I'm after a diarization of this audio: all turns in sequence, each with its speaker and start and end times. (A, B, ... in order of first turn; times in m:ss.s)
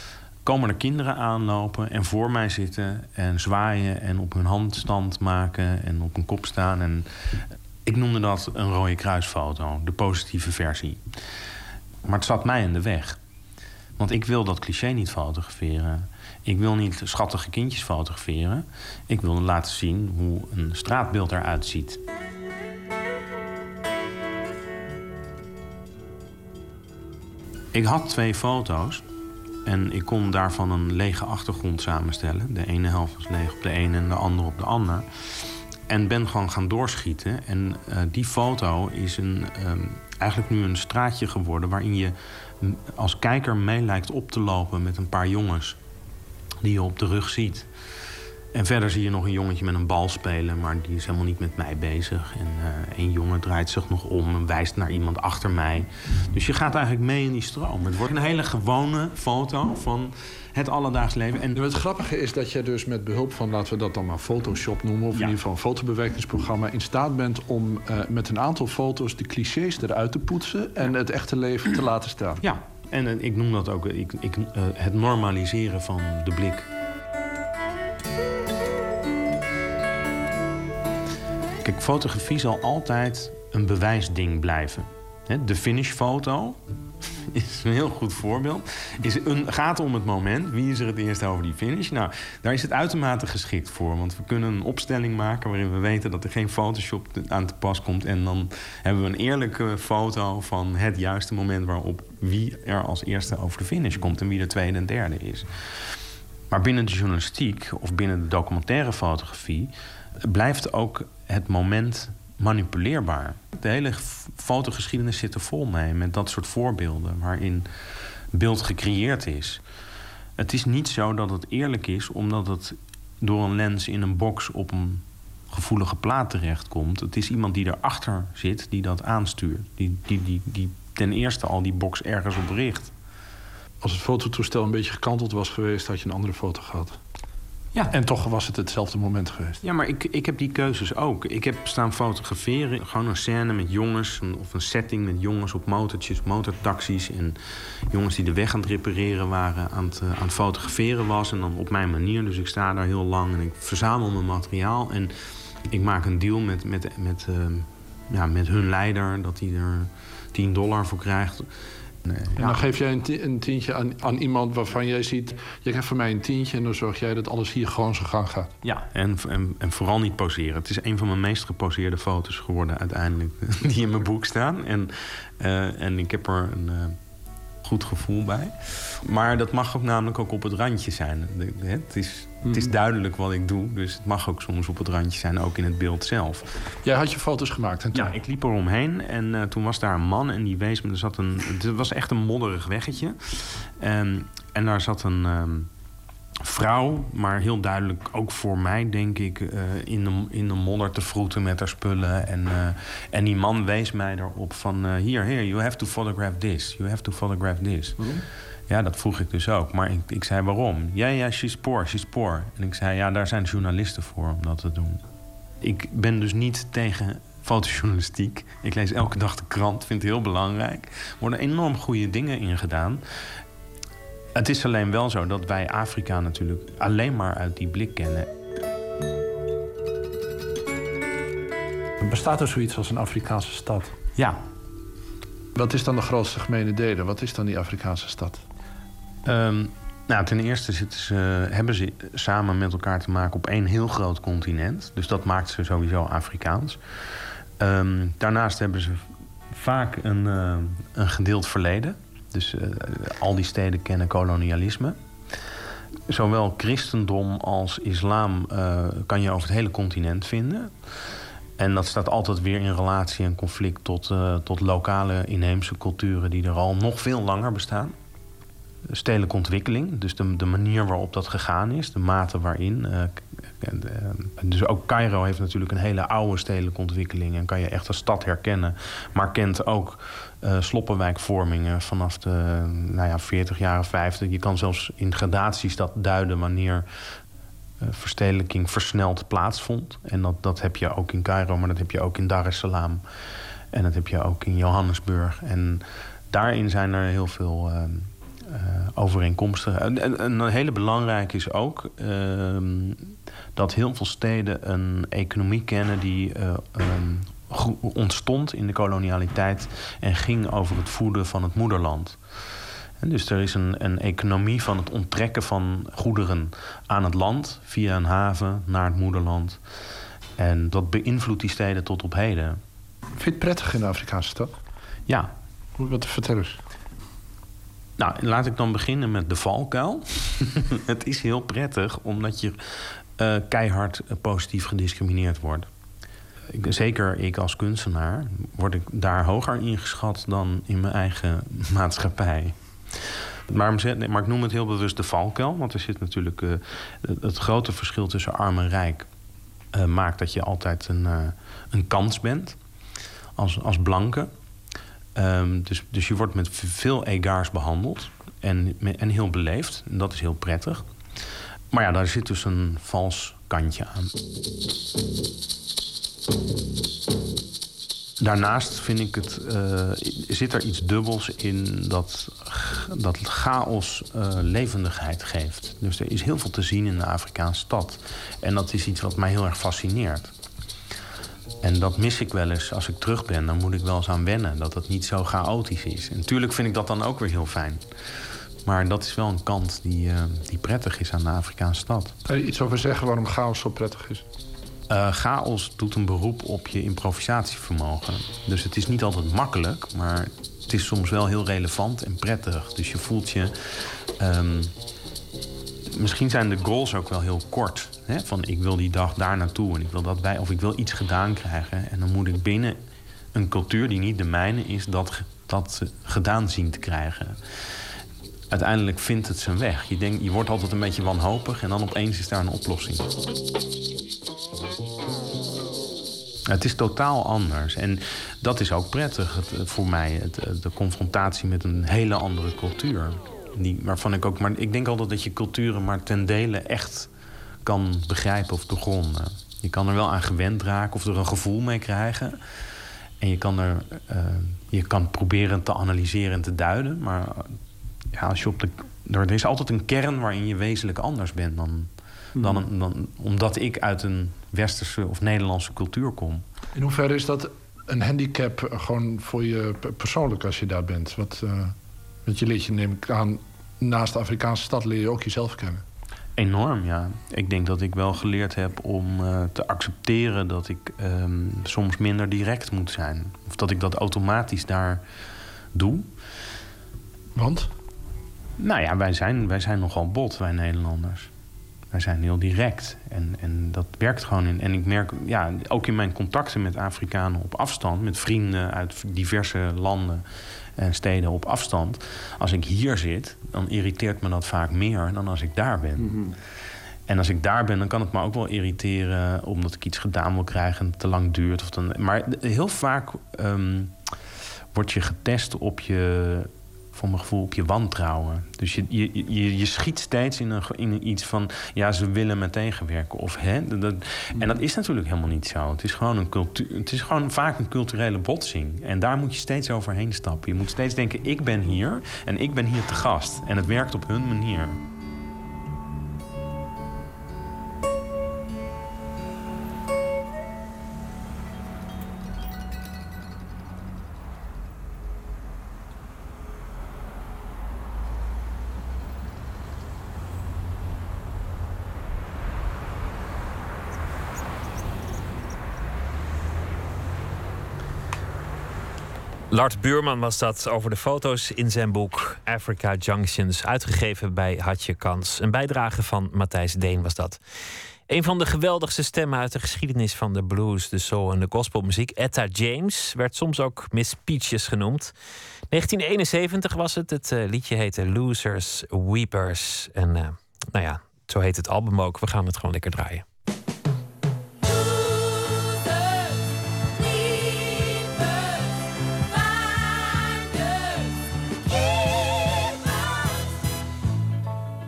0:00.4-0:11.1 A
0:12.0-0:13.2 A
0:14.0-0:22.0 A
0:27.7-0:29.0 A
0:29.6-0:35.1 A
0:35.9-0:45.8 A
0:46.6-0:47.7 A
0:48.5-1:01.8 A
1:01.5-1:12.4 B
1:12.4-1:16.7 A
1:21.6-1:26.6 A
1:27.3-1:45.9 A
1:46.5-1:59.6 A
2:00.4-2:12.9 A
2:13.8-2:17.0 B
2:17.9-2:19.6 B
2:19.6-2:35.1 A
2:35.7-2:41.5 A
2:42.0-2:42.6 A
2:42.4-2:48.5 B
2:48.6-2:57.0 A
2:57.6-3:06.5 A
3:02.4-3:02.7 B
3:06.8-3:08.2 B
3:07.9-3:15.7 A
3:16.4-3:35.0 A
3:35.6-3:43.4 A
3:44.3-3:48.3 A
3:52.0-3:53.9 B
3:54.1-3:54.4 A
3:55.5-3:58.4 B
3:59.2-4:06.8 A
4:07.6-4:15.0 A
4:16.1-4:28.0 A
4:28.9-4:47.2 A
4:47.8-4:53.0 A
4:53.7-5:19.6 A
5:20.4-5:22.6 A
5:23.1-5:24.5 B
5:25.1-5:25.3 A
5:25.8-5:26.6 B
5:28.0-5:35.7 A
5:36.5-5:49.1 A
5:49.7-5:52.6 A
5:53.4-5:54.3 A
5:55.1-6:04.1 A
6:08.2-6:20.3 A
6:21.6-6:32.2 A
6:32.2-6:34.2 B
6:34.9-6:44.7 A
6:45.9-6:52.8 A
6:53.3-6:57.9 A
6:58.5-7:03.1 A
7:06.5-7:17.1 A
7:17.6-7:22.6 A
7:23.2-7:27.6 A
7:28.1-7:36.5 A
7:36.7-7:45.8 B
7:46.4-7:55.0 A
7:55.7-7:56.2 A
7:57.3-7:57.7 B
7:58.6-8:01.3 A
8:01.9-8:16.5 A
8:17.0-8:24.1 A
8:24.7-8:44.8 A
9:09.5-9:17.4 C
9:18.1-9:25.1 C
9:25.7-9:33.2 C